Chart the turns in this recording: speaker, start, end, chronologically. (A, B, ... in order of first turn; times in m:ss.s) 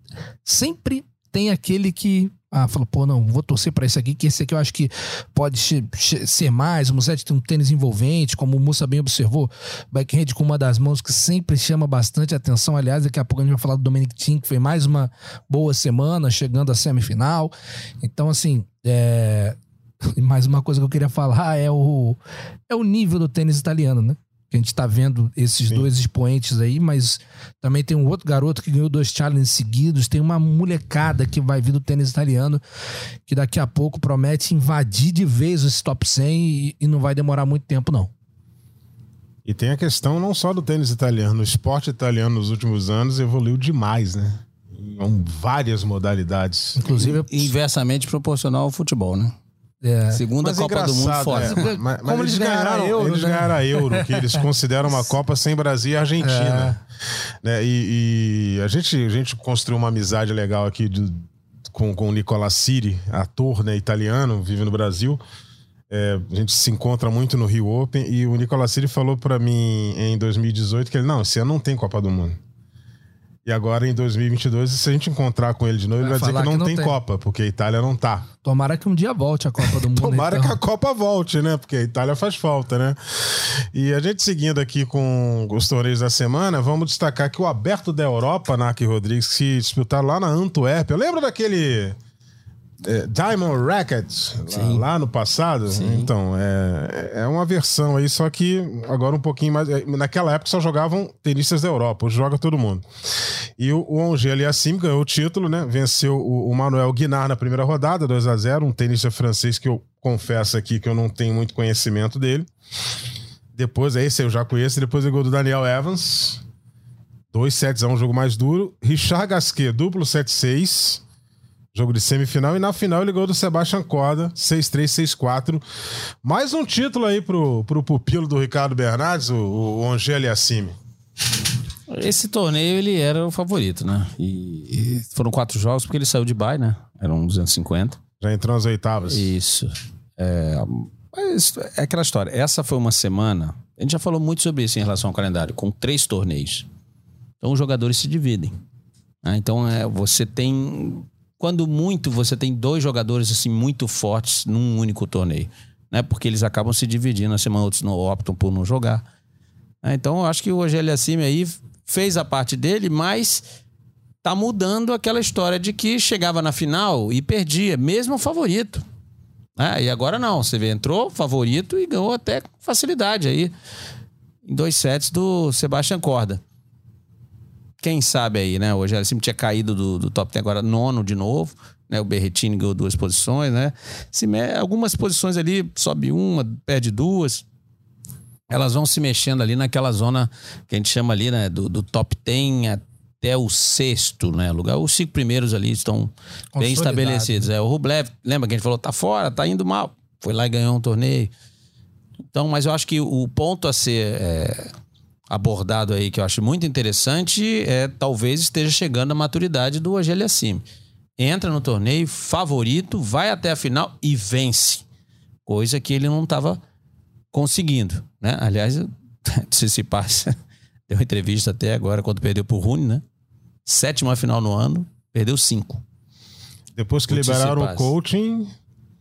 0:00.4-0:19.6 A
0:20.2-0:32.6 A
0:33.3-0:38.1 A
0:39.4-0:46.9 B
0:46.8-0:47.5 A
0:46.9-0:49.4 C
0:49.8-0:50.2 A
0:50.1-0:51.6 C
0:50.4-0:56.8 B
0:51.4-0:54.4 A
0:56.2-0:56.8 A
0:57.4-1:05.2 B
1:05.9-1:12.4 B
1:13.4-1:18.3 B
1:16.0-1:17.0 A
1:18.4-1:20.6 A
1:19.8-1:32.0 B
1:32.8-1:42.8 B
1:34.5-1:34.9 C
1:35.7-1:36.1 C
1:43.6-1:52.5 B
1:53.5-1:56.4 B
1:57.3-2:01.0 B
2:01.7-2:05.6 B
2:06.2-2:10.8 B
2:11.9-2:18.0 C
2:18.2-2:19.3 B
2:19.1-2:26.7 C
2:27.4-2:28.6 C
2:29.2-2:39.0 C
2:39.8-2:43.4 C
2:44.2-2:48.8 C
2:49.6-2:53.5 C
2:54.4-2:56.4 C
2:57.8-3:07.4 C
3:08.5-3:21.3 C
3:16.6-3:17.4 A
3:22.3-3:24.7 C
3:25.3-3:30.6 C
3:31.2-3:34.8 C
3:35.4-3:36.6 C
3:37.3-3:40.4 C
3:40.9-3:43.0 C
3:43.7-3:45.8 C
3:46.8-3:48.5 B
3:47.1-3:47.9 C